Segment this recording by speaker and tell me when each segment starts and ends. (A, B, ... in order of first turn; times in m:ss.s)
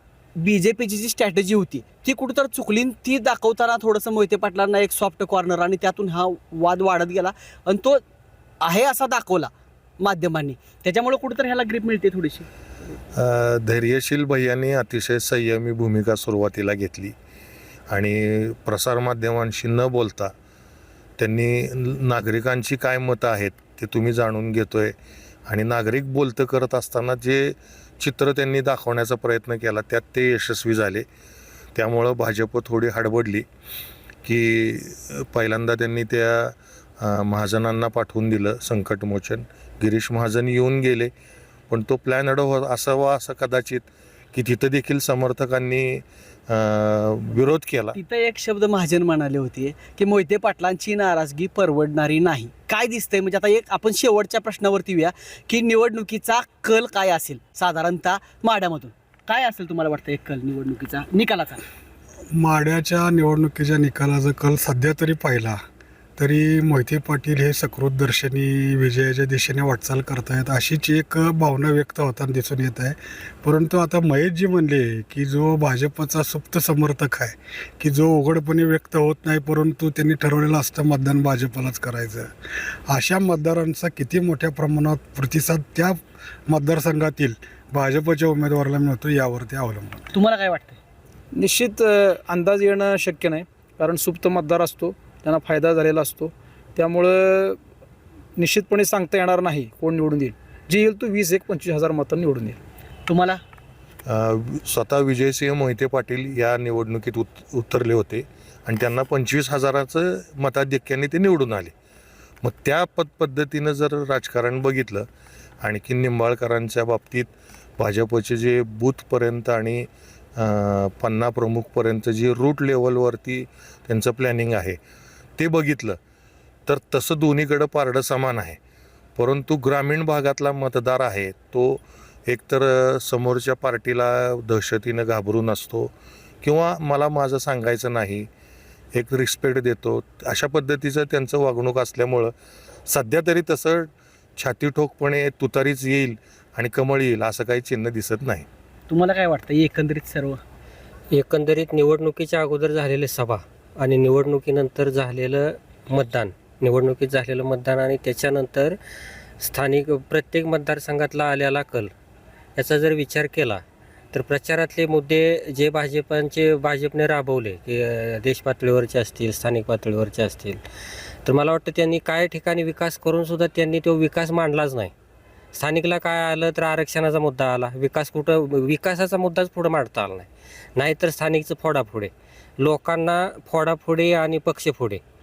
0:00.4-0:08.0 A
0:08.6-0:12.5 A
0:13.1-0:17.1 B
0:17.9-0:20.3 B
0:21.2-0:24.9 B
0:25.5-0:31.0 B
0:31.7-0:33.4 B
0:34.2-0:41.1 B
0:41.7-0:48.0 B
0:47.9-1:01.6 A
1:02.3-1:05.6 C
1:06.2-1:22.3 C
1:22.9-1:30.1 C
1:30.1-1:30.8 A
1:31.3-1:37.6 D
1:38.4-1:42.6 D
1:43.1-1:43.4 A
1:44.0-1:51.7 B
1:52.4-1:55.1 B
1:55.6-2:04.8 B
2:05.4-2:06.0 B
2:06.7-2:08.6 B
2:09.2-2:18.3 B
2:18.9-2:22.3 B
2:22.9-2:28.5 B
2:28.9-2:30.4 A
2:31.1-2:38.8 E
2:39.4-2:41.9 E
2:42.6-2:50.6 E
2:51.2-2:54.9 E
2:55.5-3:05.0 E